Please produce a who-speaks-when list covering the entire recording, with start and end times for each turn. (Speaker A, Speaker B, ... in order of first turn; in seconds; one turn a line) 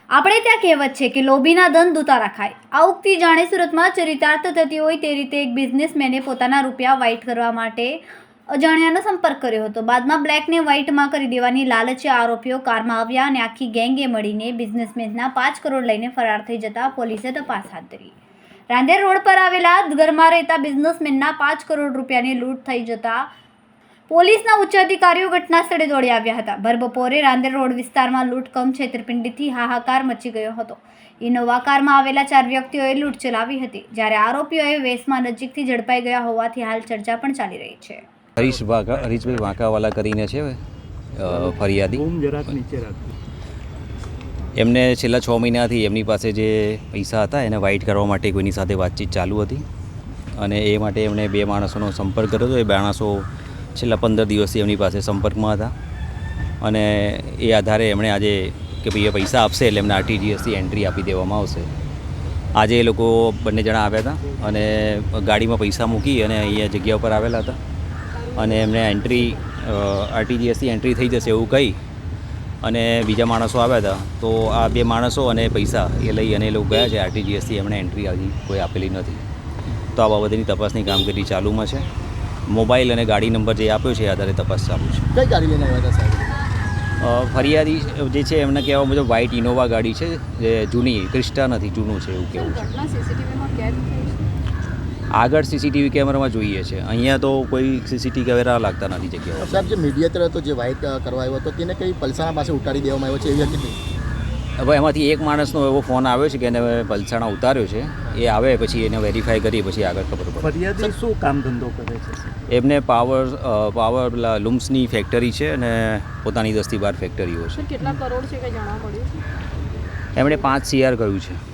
Speaker A: 0.1-18.1
Speaker A: 18.7-23.3
Speaker A: 24.1-38.0
Speaker B: 38.4-40.6
Speaker B: 41.1-42.5
Speaker C: 41.3-43.1
Speaker B: 44.6-49.6
Speaker B: 50.4-55.7
Speaker B: 56.6-61.7
Speaker B: 62.6-67.6
Speaker D: 68.1-69.4
Speaker B: 68.3-71.8
Speaker B: 72.6-79.2
Speaker B: 79.9-81.8
Speaker B: 82.5-85.1
Speaker E: 85.1-86.3
Speaker B: 87.0-92.7
Speaker D: 92.3-94.3
Speaker B: 95.1-99.7
Speaker E: 99.4-103.8
Speaker B: 104.6-110.6
Speaker C: 110.4-112.2
Speaker B: 112.5-117.8
Speaker D: 117.5-119.2
Speaker B: 120.2-121.4